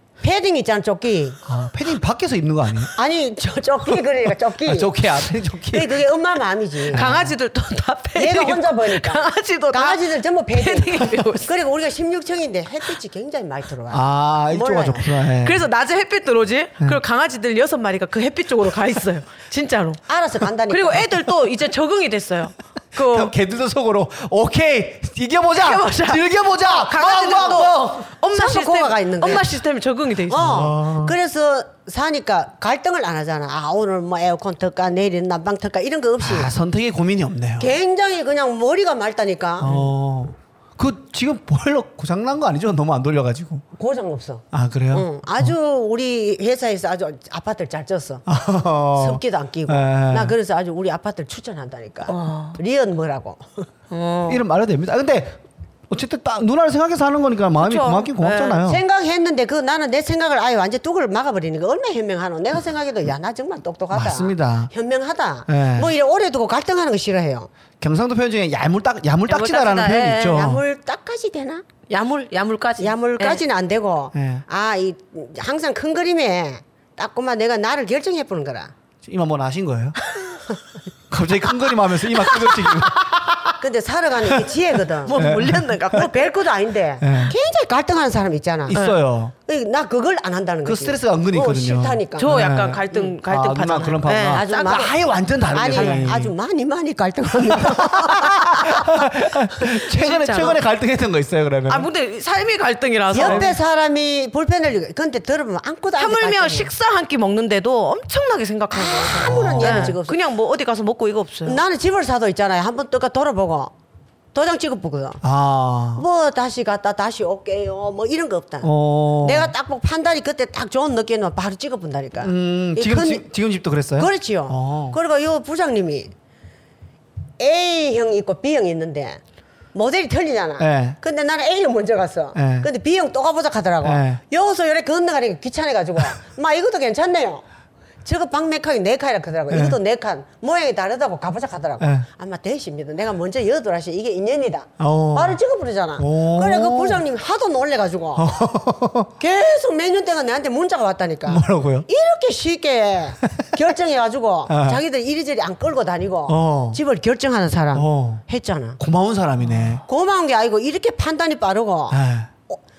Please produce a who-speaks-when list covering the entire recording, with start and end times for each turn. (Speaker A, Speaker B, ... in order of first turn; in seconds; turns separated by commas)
Speaker A: 0.2-1.4, Speaker B: 1.5-2.9, Speaker A: 3.0-4.9, Speaker B: 4.7-6.0, Speaker A: 5.7-7.1, Speaker C: 6.9-11.5, Speaker B: 6.9-7.3, Speaker A: 8.2-15.1, Speaker B: 13.9-15.7, Speaker C: 15.2-20.0, Speaker A: 20.1-21.1, Speaker C: 20.7-23.3, Speaker B: 23.0-27.9, Speaker C: 25.6-30.7, Speaker A: 28.3-29.5, Speaker A: 30.3-36.5, Speaker B: 30.4-31.2, Speaker B: 36.2-37.7, Speaker A: 37.6-39.8, Speaker B: 39.6-43.6, Speaker A: 43.8-48.2, Speaker B: 44.5-45.5, Speaker B: 48.3-50.4, Speaker A: 49.0-53.7, Speaker C: 52.1-52.6, Speaker C: 53.9-54.4, Speaker B: 54.3-58.8, Speaker C: 57.6-58.6, Speaker A: 58.6-67.5, Speaker B: 63.9-64.7, Speaker B: 65.5-65.9, Speaker B: 67.8-70.6, Speaker C: 69.3-70.5, Speaker A: 70.2-71.7, Speaker C: 71.9-73.4, Speaker A: 72.8-78.7, Speaker B: 74.2-74.4, Speaker B: 79.0-80.0, Speaker B: 81.1-83.6, Speaker C: 82.2-82.8, Speaker A: 83.6-85.2, Speaker C: 85.0-86.5, Speaker B: 85.2-86.0, Speaker A: 85.9-88.8, Speaker B: 87.0-87.3, Speaker B: 88.7-89.3, Speaker C: 88.7-89.0, Speaker A: 89.5-92.3, Speaker B: 90.6-96.3, Speaker C: 92.2-94.9, Speaker A: 94.3-95.0, Speaker A: 95.5-99.0, Speaker C: 95.8-96.2, Speaker B: 97.5-101.9, Speaker C: 99.7-100.6, Speaker C: 101.7-103.5, Speaker A: 103.1-106.7, Speaker B: 103.2-103.5, Speaker C: 106.0-111.6, Speaker A: 108.7-110.2, Speaker B: 109.2-110.0, Speaker A: 111.5-113.7, Speaker A: 114.3-115.2, Speaker B: 115.2-116.0, Speaker A: 116.0-118.7, Speaker B: 118.6-119.5, Speaker A: 119.2-123.2, Speaker B: 122.2-125.0, Speaker A: 124.0-126.1, Speaker A: 127.4-129.2, Speaker A: 129.7-137.4, Speaker B: 130.6-131.0, Speaker B: 132.3-132.7, Speaker B: 133.8-134.2, Speaker A: 138.1-148.4, Speaker B: 139.5-139.8, Speaker B: 141.8-142.1, Speaker B: 144.8-145.4, Speaker B: 146.0-147.0, Speaker B: 148.2-149.1, Speaker A: 149.2-158.8, Speaker B: 151.3-151.9, Speaker B: 154.5-154.8, Speaker B: 156.3-156.8, Speaker B: 157.7-158.2, Speaker B: 158.8-159.8, Speaker A: 159.9-162.0, Speaker B: 161.9-162.3